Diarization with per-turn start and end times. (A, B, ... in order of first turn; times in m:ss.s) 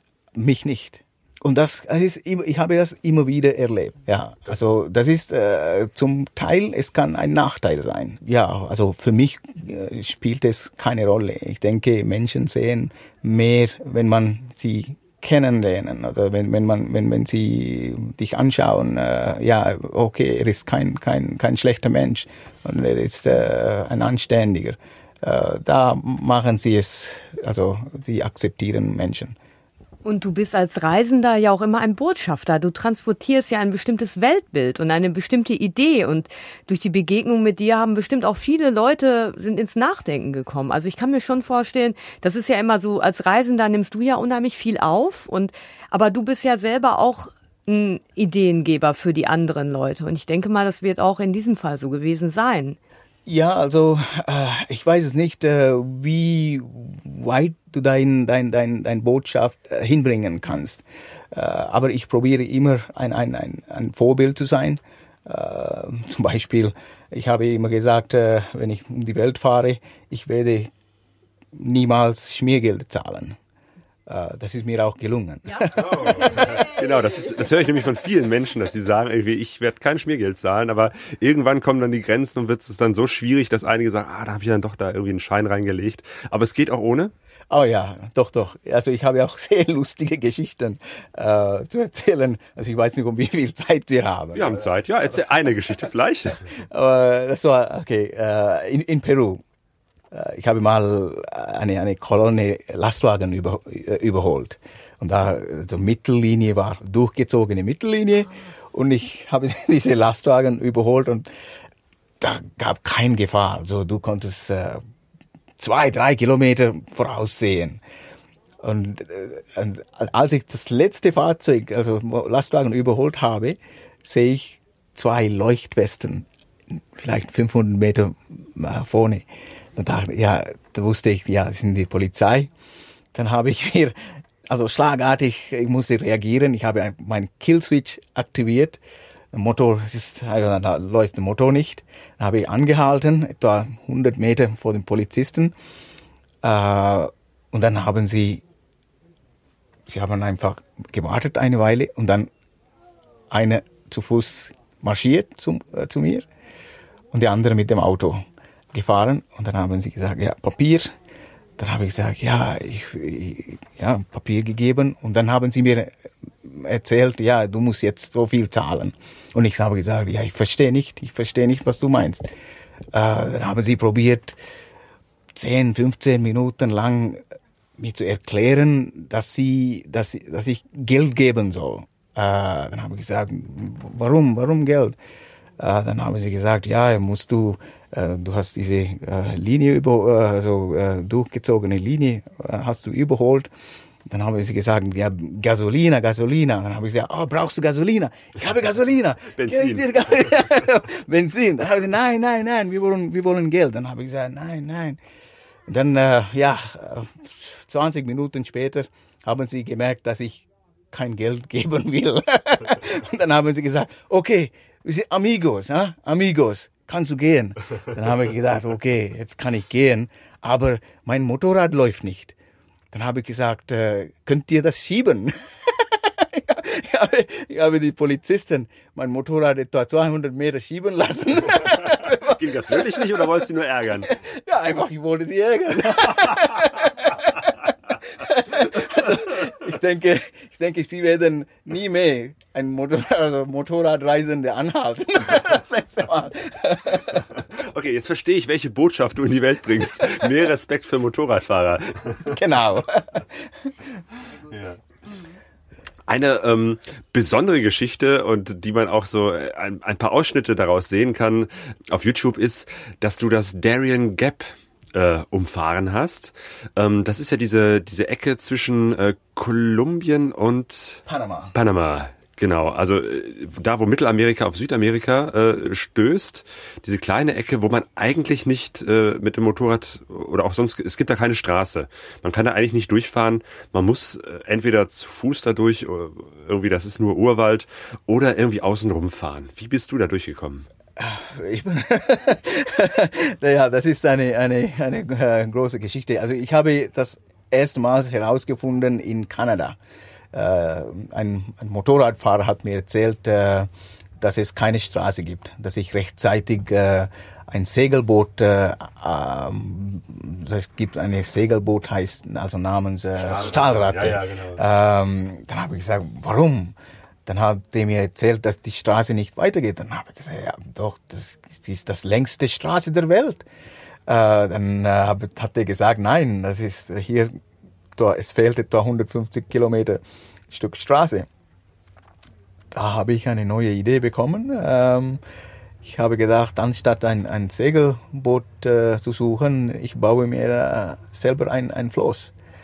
0:00.3-0:29.4 A
0:30.0-0:52.8 B
0:53.3-1:10.7 A
1:11.5-1:13.4 A
1:14.1-1:16.5 A
1:15.8-1:27.1 C
1:27.5-1:34.7 A
1:34.3-1:36.4 C
1:36.6-1:39.4 A
1:40.1-1:51.3 A
1:52.2-1:54.8 A
1:55.6-1:57.8 A
1:58.6-2:12.5 A
2:13.1-2:18.8 A
2:19.3-2:25.5 A
2:26.4-2:28.4 A
2:29.9-2:32.3 A
2:33.3-2:36.3 A
2:37.1-2:40.9 A
2:41.6-2:45.9 A
2:46.4-2:52.2 A
2:52.9-2:54.4 A
2:55.4-2:57.2 A
2:57.8-3:05.0 A
3:05.6-3:13.5 A
3:14.1-3:25.0 A
3:19.3-3:20.5 C
3:25.7-3:42.4 A
3:42.9-3:53.4 A
3:52.0-3:54.1 C
3:54.0-4:07.3 A
4:07.4-4:12.4 C
4:12.2-4:13.7 A
4:14.5-4:14.8 C
4:16.1-4:50.7 C
4:31.1-4:31.5 A
4:51.0-4:59.8 A
5:00.3-5:16.8 A
5:13.2-5:14.6 C
5:17.3-5:23.4 A
5:24.1-5:27.4 A
5:28.0-5:31.3 A
5:32.7-5:35.2 A
5:35.8-5:42.3 A